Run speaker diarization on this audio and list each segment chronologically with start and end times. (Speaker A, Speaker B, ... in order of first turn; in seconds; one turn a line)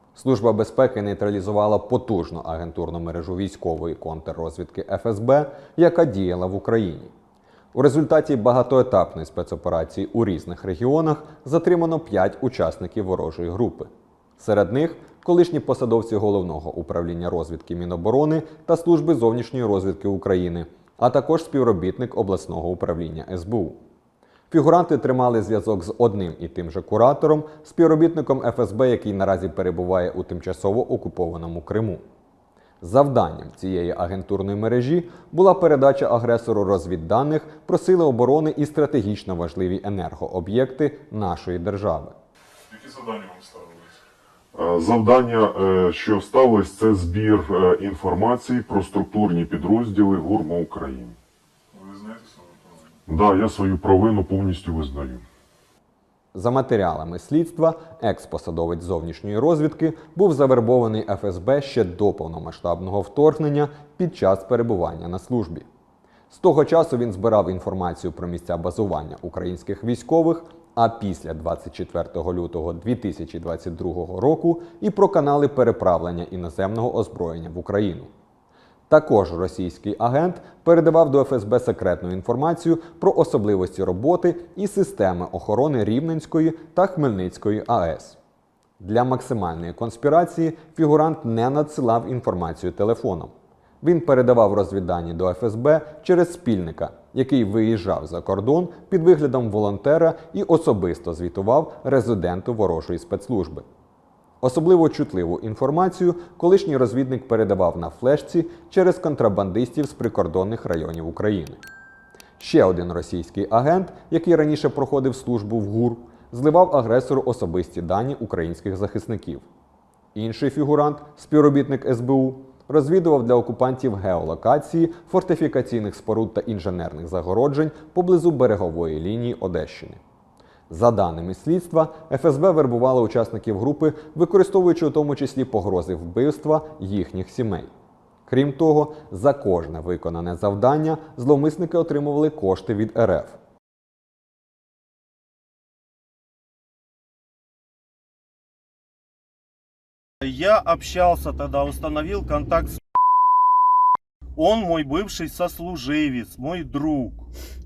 Speaker A: 0.1-7.1
Speaker A: 7.7-23.8
Speaker A: 24.5-32.0
Speaker A: 32.8-42.1
Speaker B: 42.7-43.9
Speaker C: 44.5-51.2
Speaker B: 51.7-52.6
Speaker C: 53.0-55.2
Speaker A: 56.3-65.6
Speaker A: 66.3-78.1
Speaker A: 78.9-88.2
Speaker A: 88.8-103.6
Speaker A: 104.4-111.6
Speaker A: 112.4-119.5
Speaker A: 120.1-130.0
Speaker A: 130.7-137.7
Speaker A: 138.3-143.4
Speaker D: 150.2-152.8
Speaker D: 154.3-157.2